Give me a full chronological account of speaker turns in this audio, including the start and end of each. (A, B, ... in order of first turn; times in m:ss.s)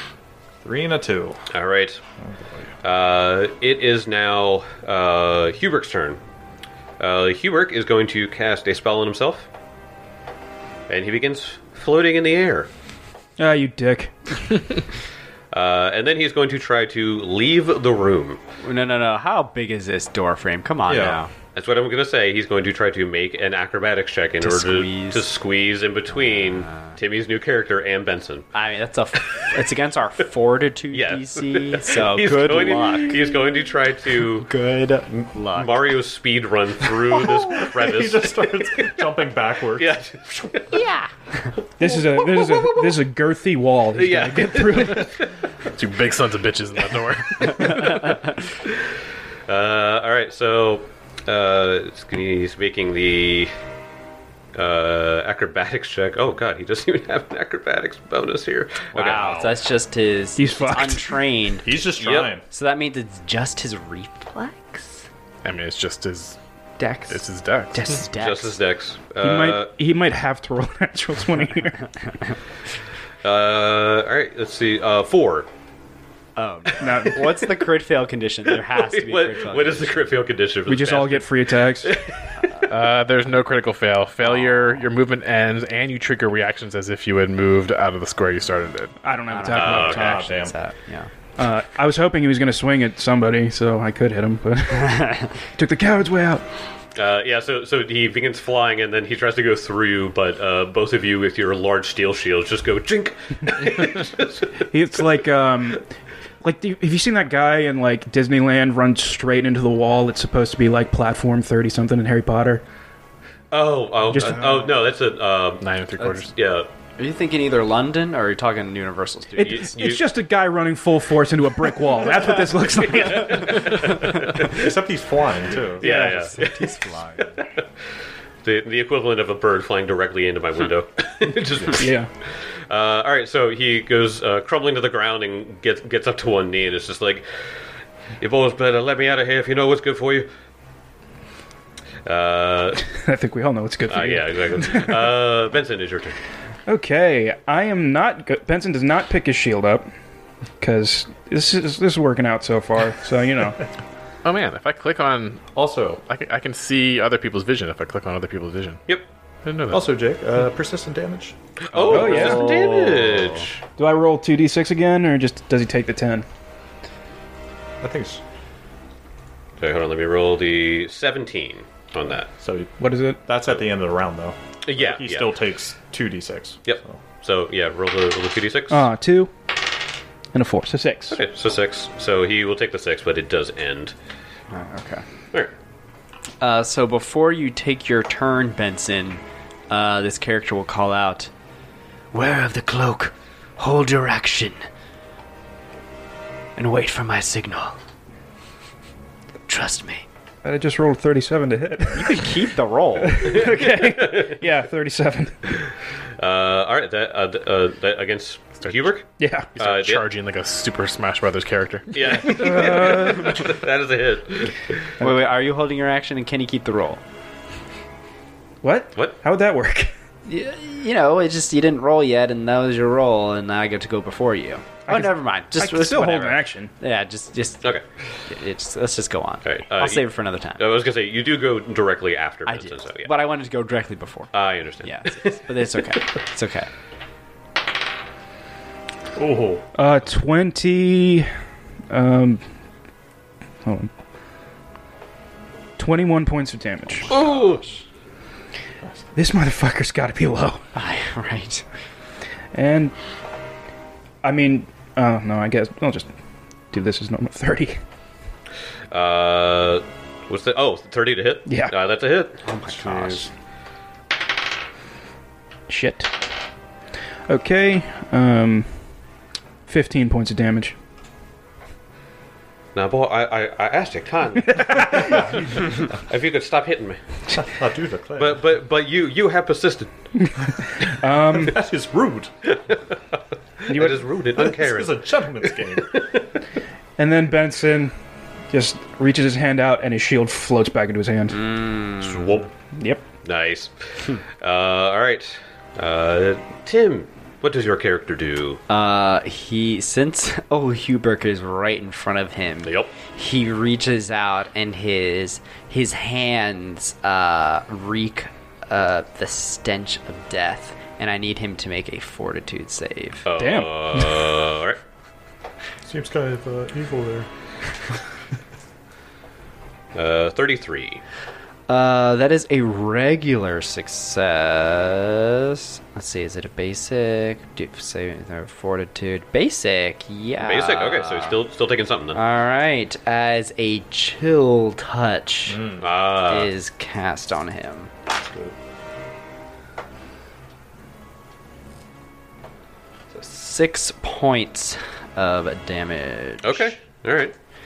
0:00.6-0:01.4 A
0:01.5-0:02.0 B
0:02.2-0:02.7 A
0:02.8-0:06.2 B
0:07.0-0:09.5 B
0:10.9-0:12.7 B
0:13.4-0:14.4 C
0:15.5-0:18.4 B
0:18.6-0:21.3 D
0:20.9-0:21.2 A
0:21.5-0:28.5 B
0:24.4-0:25.2 D
0:26.1-0:26.9 D
0:28.5-0:33.4 D
0:29.3-0:29.6 B
0:30.9-0:34.5 B
0:34.4-0:35.9 D
0:35.1-0:38.6 B
0:37.1-0:40.5 A
0:39.8-0:40.8 B
0:40.7-0:41.5 D
0:41.8-0:45.1 C
0:41.8-0:42.9 B
0:43.9-0:45.3 B
0:45.7-0:48.1 E
0:47.7-0:48.0 D
0:49.5-0:53.5 B
0:54.5-0:59.3 B
0:58.9-0:59.6 A
0:58.9-1:01.8 D
1:00.4-1:01.1 C
1:01.6-1:02.4 A
1:02.0-1:02.3 B
1:02.5-1:05.1 D
1:05.4-1:06.4 E
1:06.8-1:08.6 D
1:07.1-1:07.9 E
1:08.1-1:09.7 B
1:09.2-1:11.9 C
1:13.2-1:15.5 B
1:16.4-1:20.2 D
1:16.8-1:17.3 C
1:18.7-1:22.7 B
1:20.7-1:21.9 C
1:22.7-1:29.0 E
1:24.2-1:24.9 D
1:29.0-1:30.3 C
1:29.3-1:31.1 D
1:29.5-1:30.2 B
1:29.6-1:30.5 A
1:31.4-1:36.4 C
1:34.8-1:35.3 D
1:36.9-1:44.5 B
1:44.6-1:45.8 C
1:46.4-1:52.6 C
1:53.5-1:55.7 B
1:54.1-1:54.6 C
1:55.6-1:56.3 E
1:56.2-1:56.7 B
1:57.0-1:59.7 D
1:59.4-2:00.0 B
1:59.7-2:03.7 C
2:02.8-2:04.7 B
2:04.2-2:06.1 A
2:05.8-2:07.6 B
2:05.8-2:07.4 D
2:08.4-2:12.0 B
2:11.7-2:12.1 C
2:12.7-2:17.3 B
2:18.2-2:20.3 B
2:22.0-2:22.8 B
2:22.8-2:25.1 C
2:23.9-2:26.2 B
2:26.7-2:29.8 C
2:30.6-2:33.6 C
2:34.2-2:35.4 E
2:35.5-2:36.0 A
2:36.0-2:38.8 E
2:39.4-2:40.0 E
2:39.7-2:41.4 A
2:41.7-2:43.6 B
2:41.7-2:43.4 D
2:41.9-2:42.5 C
2:43.8-2:46.2 C
2:47.8-2:48.2 A
2:49.6-2:52.3 B
2:52.4-2:57.0 A
2:52.8-2:53.2 C
2:54.6-2:55.3 B
2:56.6-2:58.8 B
2:58.7-2:59.3 C
3:00.3-3:01.2 C
3:01.1-3:03.9 B
3:04.5-3:05.0 D
3:06.4-3:11.3 D
3:12.1-3:14.6 D
3:16.6-3:17.8 D
3:19.5-3:20.0 D
3:20.4-3:22.2 C
3:21.9-3:23.3 D
3:23.0-3:25.6 C
3:23.3-3:24.4 B
3:26.2-3:30.1 B
3:28.6-3:28.9 E
3:29.2-3:29.5 C
3:29.5-3:32.3 E
3:31.9-3:34.8 B
3:32.2-3:33.5 C
3:35.0-3:37.0 D
3:38.6-3:39.9 C
3:40.2-3:47.7 D
3:44.9-3:46.7 C
3:48.3-3:50.7 D
3:49.4-3:53.1 B
3:52.4-3:54.3 D
3:54.3-3:55.4 B
3:54.8-3:56.7 D
3:59.1-3:59.6 A
3:59.7-4:01.3 C
4:01.9-4:02.4 C
4:03.6-4:03.9 C
4:05.8-4:07.1 C
4:07.0-4:07.8 D
4:07.1-4:07.6 B
4:09.1-4:10.6 C
4:10.7-4:11.6 D
4:12.5-4:12.9 C
4:14.2-4:16.1 C
4:16.7-4:17.8 C
4:18.9-4:23.1 B
4:21.4-4:21.7 C
4:22.4-4:23.3 D
4:25.7-4:26.2 C
4:27.3-4:28.7 C
4:29.7-4:30.8 C
4:32.7-4:37.4 B
4:35.0-4:35.4 A
4:37.4-4:38.4 A
4:38.2-4:39.9 B
4:40.2-4:41.6 C
4:41.3-4:42.3 A
4:42.4-4:43.0 B
4:43.6-4:46.3 B
4:43.7-4:44.1 C
4:44.4-4:46.0 A
4:47.0-4:47.9 C
4:48.5-4:51.5 C
4:51.3-4:52.4 D
4:52.0-4:52.5 B
4:52.7-4:53.0 C
4:53.2-4:58.6 B
4:58.7-5:13.2 D
5:02.6-5:02.9 B
5:13.2-5:14.8 B
5:13.4-5:14.3 C
5:15.8-5:17.3 A
5:19.9-5:21.0 B
5:21.7-5:31.4 D
5:30.4-5:32.2 B
5:32.1-5:35.7 D
5:35.5-5:35.9 A
5:35.8-5:36.5 B
5:36.2-5:37.9 D
5:38.2-5:38.5 A
5:43.1-5:46.8 D
5:46.4-5:47.3 B